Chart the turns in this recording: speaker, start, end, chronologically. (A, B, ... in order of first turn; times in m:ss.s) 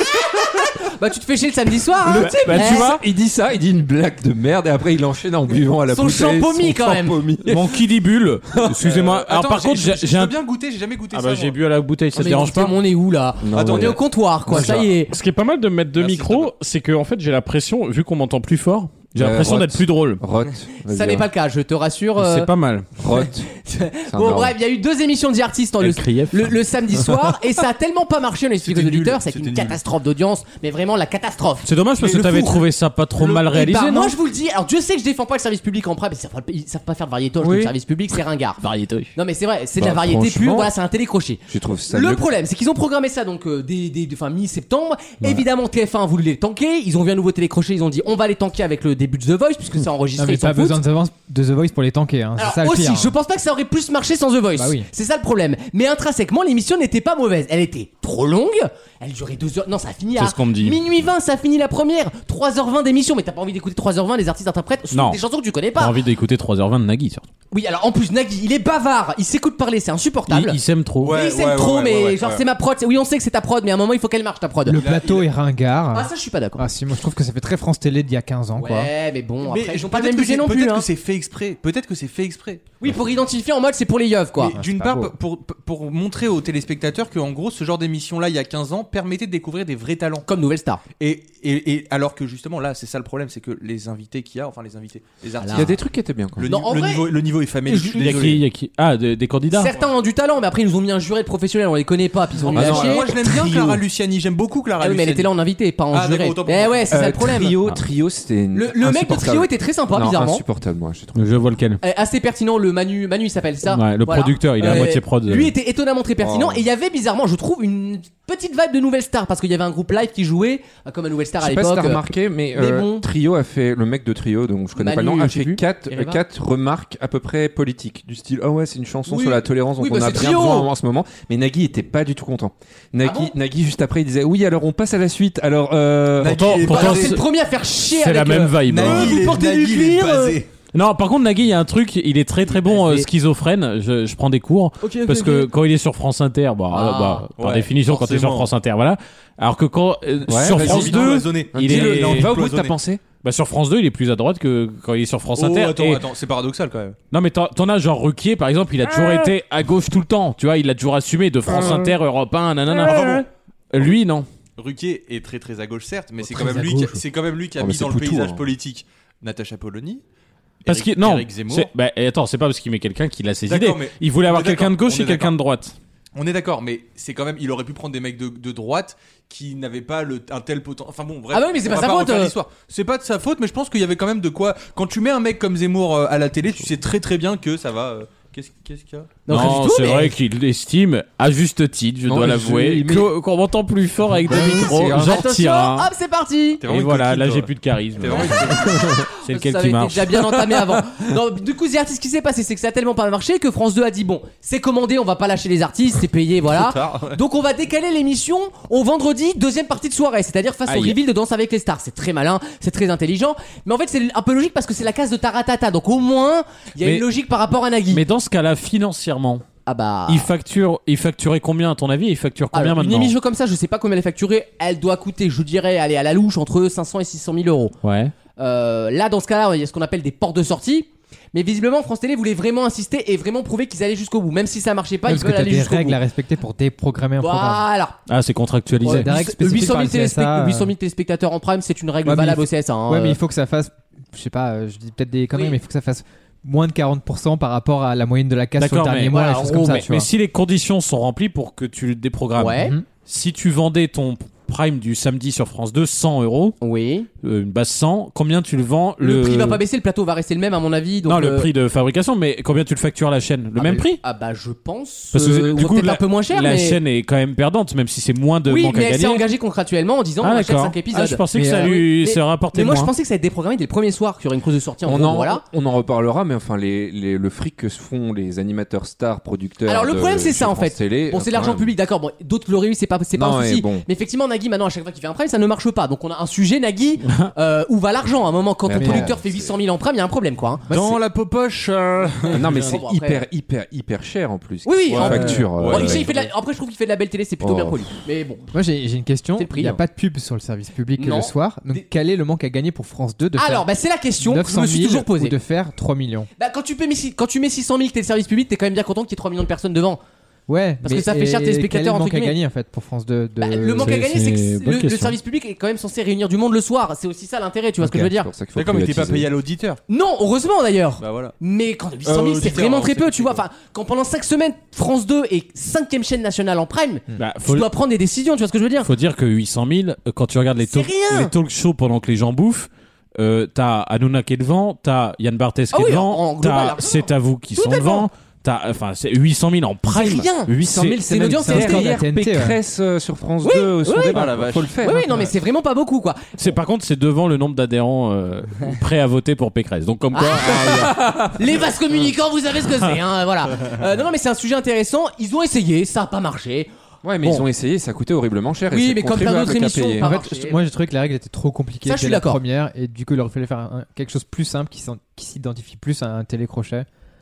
0:00.8-0:02.9 A
0:02.0-0:07.7 B
0:02.2-0:03.0 C
0:05.9-0:07.2 A
0:07.5-0:10.3 C
0:08.8-0:11.6 D
0:11.1-0:12.8 C
0:12.1-0:15.1 A
0:13.4-0:14.0 B
0:13.5-0:14.0 D
0:14.5-0:20.2 C
0:16.0-0:16.5 D
0:19.2-0:21.3 B
0:20.8-0:22.5 A
0:22.2-0:22.8 C
0:23.0-0:23.5 B
0:23.1-0:32.6 A
0:24.1-0:24.5 B
0:25.8-0:26.6 C
0:28.6-0:29.8 D
0:31.6-0:34.1 C
0:33.2-0:38.6 A
0:38.6-0:39.1 C
0:39.2-0:50.8 A
0:39.8-0:40.7 B
0:41.5-0:42.3 B
0:50.2-0:53.1 E
0:52.4-1:06.0 A
0:54.5-0:54.9 E
1:00.2-1:00.8 C
1:04.9-1:05.2 C
1:05.8-1:07.2 C
1:07.5-1:10.6 A
1:10.3-1:11.1 C
1:11.0-1:12.4 D
1:11.1-1:14.8 A
1:14.6-1:18.9 E
1:14.7-1:15.3 D
1:15.9-1:16.6 A
1:18.6-1:20.9 A
1:19.4-1:22.8 D
1:22.8-1:24.6 A
1:24.4-1:30.2 D
1:24.6-1:25.1 E
1:30.2-1:30.8 A
1:31.0-1:35.8 D
1:35.4-1:35.7 A
1:35.5-1:36.4 B
1:36.4-1:38.4 D
1:36.4-1:37.1 A
1:37.7-1:38.2 A
1:37.9-1:39.7 C
1:39.5-1:43.7 A
1:42.4-1:45.3 D
1:42.5-1:43.7 B
1:44.8-1:47.5 A
1:45.9-1:46.9 D
1:46.9-1:51.2 B
1:48.5-1:50.4 A
1:51.1-1:51.8 C
1:51.8-2:03.0 A
1:53.7-1:55.5 C
1:56.2-1:56.6 B
2:01.4-2:16.6 B
2:04.8-2:06.2 A
2:09.1-2:10.7 A
2:13.0-2:13.3 A
2:16.2-2:17.2 D
2:16.3-2:17.2 C
2:16.6-2:20.4 A
2:17.9-2:19.4 C
2:18.5-2:20.5 D
2:20.7-2:32.4 C
2:22.5-2:23.1 A
2:24.8-2:25.5 A
2:26.7-2:27.3 A
2:27.4-2:28.5 D
2:30.3-2:33.0 B
2:30.3-2:32.7 D
2:33.2-2:36.0 C
2:35.4-2:37.0 D
2:37.1-2:44.3 C
2:41.5-2:41.9 B
2:44.6-2:50.0 D
2:47.6-2:48.4 B
2:50.6-2:51.7 D
2:50.7-2:55.7 C
2:53.5-2:55.3 D
2:56.2-3:09.3 D
3:01.3-3:02.3 A
3:09.2-3:10.1 A
3:09.3-3:15.9 C
3:12.1-3:13.1 B
3:14.2-3:15.2 B
3:14.9-3:16.6 A
3:16.6-3:18.7 D
3:16.7-3:20.6 C
3:18.1-3:18.5 A
3:19.2-3:38.0 A
3:26.5-3:27.2 D
3:30.7-3:31.0 C
3:37.9-3:39.4 C
3:39.6-3:40.3 A
3:40.1-3:43.1 C
3:42.5-3:47.7 A
3:47.8-3:48.1 C
3:48.4-3:56.0 A
3:55.0-3:57.7 E
3:57.2-3:58.0 A
3:58.1-3:59.1 C
3:58.8-4:00.7 E
3:58.8-4:03.2 A
4:02.0-4:10.1 E
4:08.6-4:16.6 C
4:09.1-4:09.8 A
4:12.4-4:12.7 A
4:12.6-4:12.8 E
4:16.6-4:17.1 A
4:17.2-4:19.6 C
4:19.0-4:21.5 A
4:21.0-4:24.0 C
4:23.6-4:26.8 A
4:25.1-4:29.2 C
4:28.5-4:35.4 A
4:30.2-4:32.9 C
4:31.3-4:31.8 E
4:34.8-4:41.7 B
4:39.6-4:50.6 A
4:43.1-4:43.8 B
4:48.6-4:49.5 B
4:48.8-4:49.2 E
4:50.7-4:52.8 D
4:50.7-4:51.0 E
4:52.3-4:56.1 B
4:52.6-4:53.2 A
4:54.6-4:58.5 A
4:54.9-4:56.2 D
4:57.4-4:57.8 B
4:58.5-5:03.7 E
4:59.4-4:59.8 A
5:01.0-5:01.8 A
5:03.4-5:05.3 A
5:04.2-5:06.3 E
5:06.4-5:10.0 A
5:10.5-5:13.9 E
5:10.8-5:12.4 A
5:13.4-5:18.3 A
5:13.8-5:15.2 C
5:17.8-5:19.3 B
5:18.5-5:19.8 D
5:19.9-5:28.9 A
5:21.0-5:21.3 D
5:22.0-5:23.4 D
5:27.2-5:27.7 C
5:28.8-5:41.0 C
5:30.6-5:31.3 A
5:35.7-5:38.1 A
5:39.9-5:40.5 A
5:40.6-5:45.1 B
5:41.0-5:42.0 A
5:41.2-5:42.6 E
5:43.4-5:46.6 A
5:44.1-5:44.8 D
5:46.4-5:50.9 C
5:50.1-5:56.7 A
5:50.4-5:51.6 B
5:57.0-6:00.1 B
5:58.7-6:00.6 A
6:00.0-6:06.8 E
6:01.8-6:02.4 A